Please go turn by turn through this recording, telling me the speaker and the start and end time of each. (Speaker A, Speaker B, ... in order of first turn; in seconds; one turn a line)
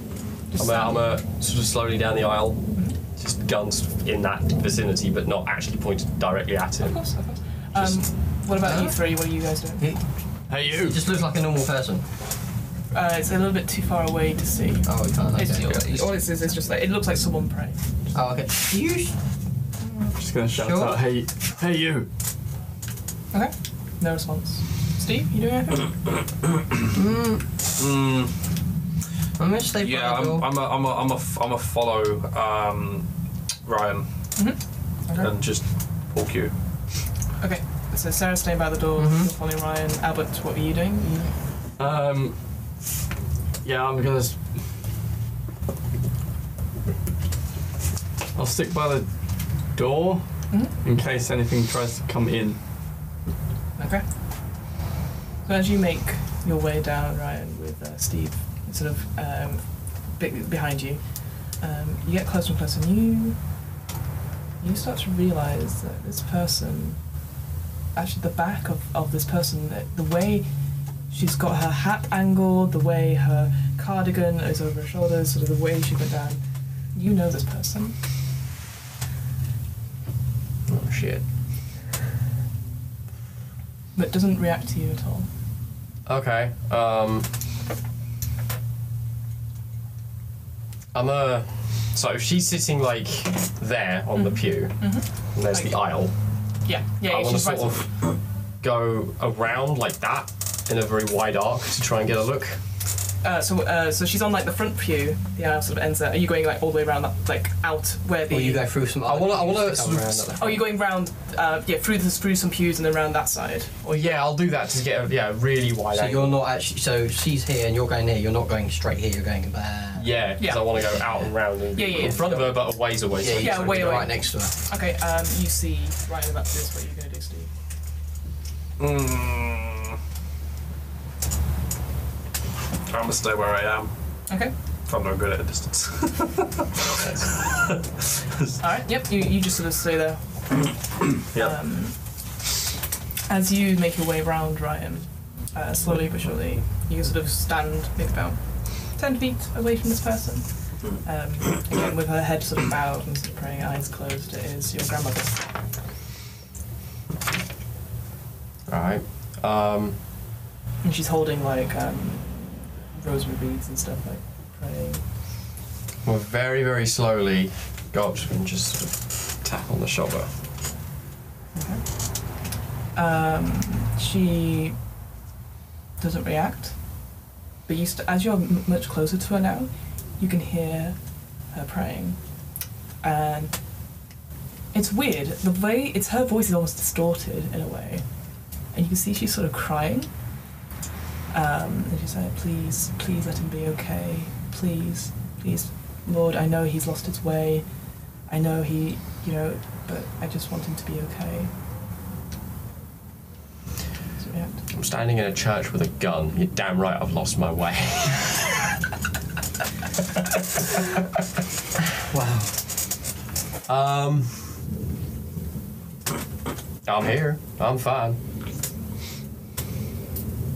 Speaker A: 0.5-1.0
Speaker B: 0.6-7.0
Speaker A: 6.8-9.9
Speaker C: 8.6-9.0
Speaker C: 9.8-10.0
Speaker D: 10.5-11.0
Speaker C: 10.6-12.0
Speaker A: 12.9-17.8
Speaker C: 14.8-16.0
Speaker C: 18.1-19.1
Speaker D: 20.1-22.1
Speaker C: 20.5-21.0
Speaker A: 23.3-26.0
Speaker C: 26.9-27.4
Speaker E: 27.8-28.3
Speaker C: 29.4-30.5
Speaker E: 29.8-33.1
Speaker E: 33.6-34.1
Speaker A: 34.4-35.3
Speaker E: 35.1-36.5
Speaker A: 37.4-41.3
Speaker C: 39.0-39.3
Speaker D: 41.8-42.4
Speaker D: 43.6-44.4
Speaker D: 48.3-49.1
Speaker D: 49.7-52.6
Speaker A: 53.8-54.0
Speaker A: 55.4-61.0
Speaker A: 61.6-63.4
Speaker A: 64.6-67.0
Speaker A: 67.9-70.5
Speaker A: 71.1-76.4
Speaker A: 76.9-77.9
Speaker B: 80.7-81.2
Speaker A: 83.9-85.3
Speaker B: 86.0-87.3
Speaker B: 90.9-96.1
Speaker A: 94.1-95.8
Speaker A: 96.6-97.8
Speaker B: 97.0-98.1
Speaker B: 98.6-102.6
Speaker A: 103.2-108.7
Speaker C: 108.3-110.6
Speaker B: 109.0-110.6
Speaker A: 110.4-114.1
Speaker B: 113.9-116.4
Speaker C: 115.9-120.1
Speaker B: 120.0-124.0
Speaker A: 120.4-120.8
Speaker A: 121.7-122.5
Speaker C: 123.2-124.5
Speaker A: 123.3-127.5
Speaker E: 128.8-129.9
Speaker E: 132.9-133.9
Speaker E: 134.9-136.6
Speaker B: 137.0-137.3
Speaker A: 138.6-140.7
Speaker A: 141.2-141.9
Speaker A: 143.3-155.4
Speaker B: 158.7-160.0
Speaker A: 160.8-165.0
Speaker B: 166.0-170.3
Speaker A: 171.5-171.8
Speaker A: 172.9-174.8
Speaker A: 176.0-176.8
Speaker A: 177.7-181.0
Speaker A: 181.5-182.2
Speaker A: 183.0-183.5
Speaker A: 184.7-188.0
Speaker A: 188.7-190.1
Speaker A: 191.3-197.6
Speaker A: 198.3-201.5
Speaker A: 204.2-204.6
Speaker B: 204.7-208.4
Speaker C: 212.1-212.5
Speaker B: 213.7-214.5
Speaker B: 216.8-218.2